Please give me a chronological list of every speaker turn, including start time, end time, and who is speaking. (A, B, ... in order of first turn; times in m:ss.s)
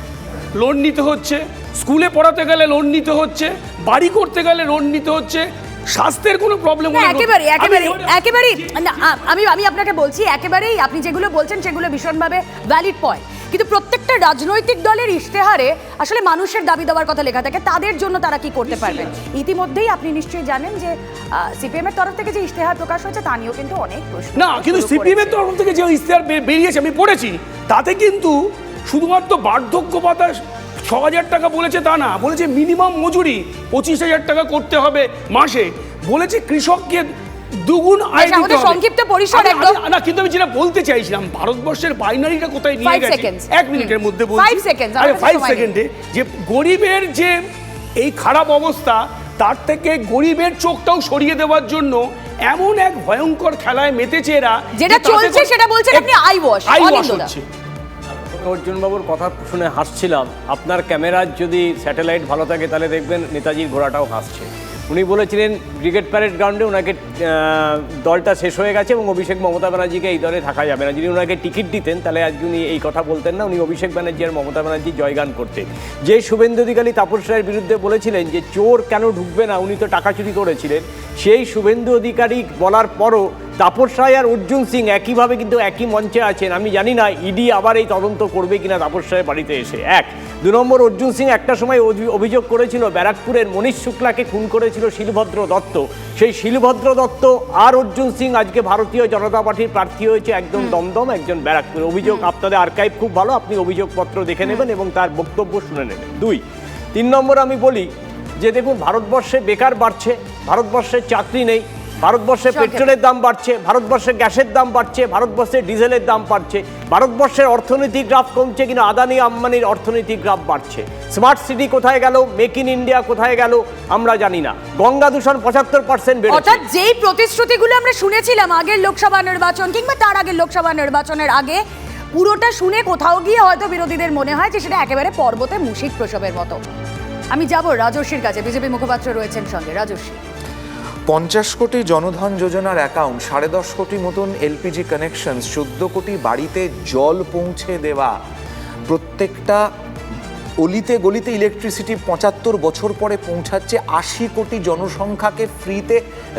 0:00.6-0:09.0 A
0:06.9-0:25.4 B
0:18.6-0:19.2 A
0:24.3-0:47.4 A
0:38.1-0:39.8 B
0:42.8-0:45.7 B
0:48.0-0:56.1 A
0:54.8-0:57.3 B
0:56.6-0:57.4 A
0:58.4-1:46.4 C
1:46.9-2:06.6 C
1:52.5-1:53.0 B
2:06.3-2:11.6 B
2:12.1-2:16.6 B
2:17.3-2:20.2 B
2:21.1-2:28.2 D
2:28.9-2:29.6 D
2:30.6-2:36.0 D